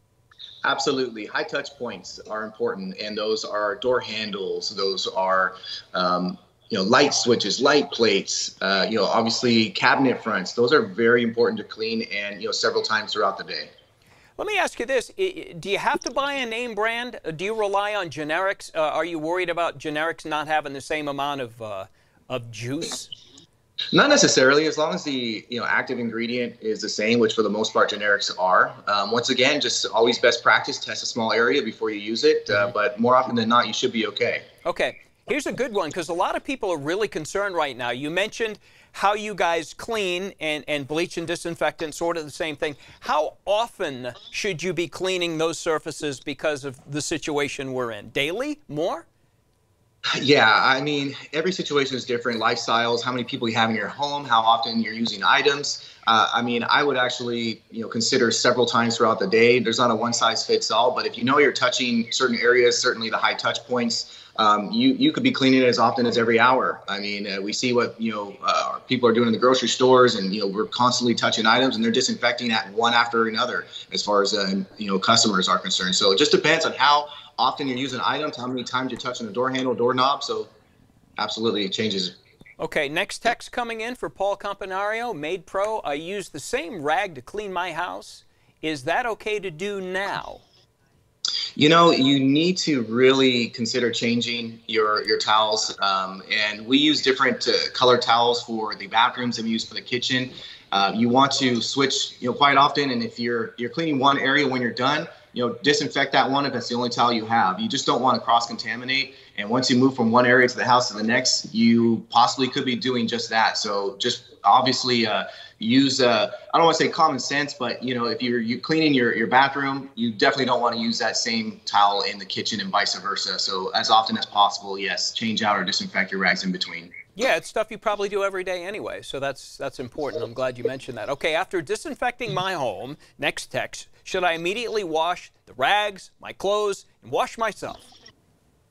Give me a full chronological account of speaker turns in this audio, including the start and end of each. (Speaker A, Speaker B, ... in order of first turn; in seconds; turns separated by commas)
Speaker A: 0.6-13.7, Speaker B: 14.4-23.1, Speaker A: 23.9-34.5, Speaker B: 34.6-49.1, Speaker A: 50.2-80.5, Speaker A: 81.2-82.1, Speaker B: 82.6-90.4, Speaker A: 91.6-126.9, Speaker B: 127.2-137.9